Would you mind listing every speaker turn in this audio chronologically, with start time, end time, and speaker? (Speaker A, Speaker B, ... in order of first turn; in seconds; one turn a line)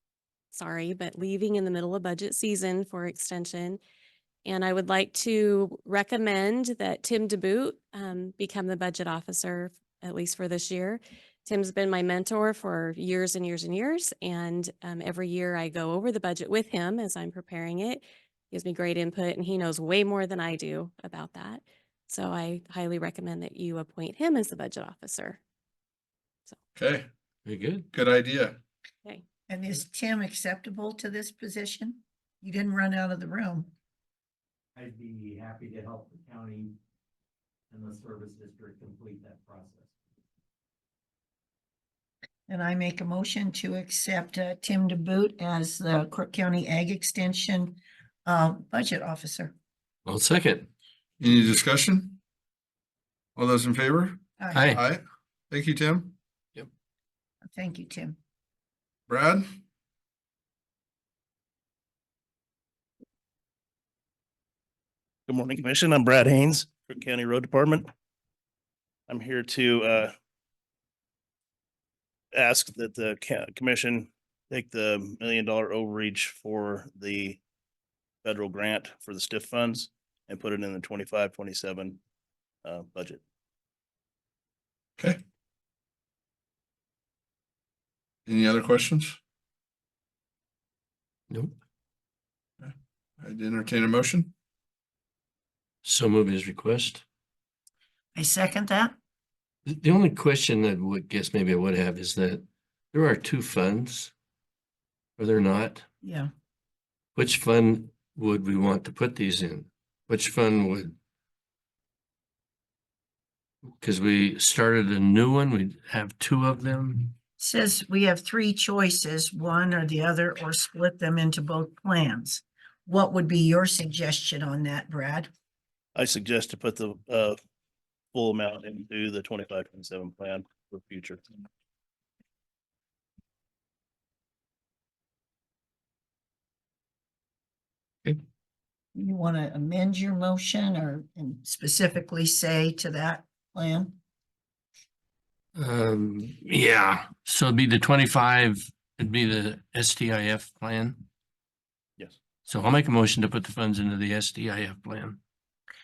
Speaker A: 0.5-3.8
Speaker A: 4.4-25.4
Speaker B: 26.7-27.1
Speaker C: 27.4-27.9
Speaker B: 27.9-28.6
Speaker D: 29.5-33.7
Speaker E: 34.8-36.8
Speaker E: 37.7-39.9
Speaker D: 42.5-49.5
Speaker C: 50.0-50.7
Speaker B: 51.2-52.2
Speaker B: 53.4-56.2
Speaker D: 54.4-54.8
Speaker C: 54.5-54.8
Speaker D: 57.5-58.2
Speaker B: 59.1-59.5
Speaker F: 65.3-67.9
Speaker F: 69.1-70.1
Speaker F: 72.3-77.4
Speaker F: 78.2-82.0
Speaker F: 82.6-83.2
Speaker B: 88.2-89.2
Speaker C: 91.3-91.5
Speaker B: 92.6-94.3
Speaker C: 95.8-97.0
Speaker D: 98.1-99.0
Speaker C: 99.7-104.1
Speaker C: 105.2-105.8
Speaker D: 106.0-106.3
Speaker C: 107.1-111.0
Speaker C: 113.8-117.1
Speaker D: 117.4-125.3
Speaker F: 125.9-127.4
Speaker F: 128.1-131.2
Speaker D: 138.9-144.0
Speaker C: 145.5-151.0
Speaker C: 152.5-155.2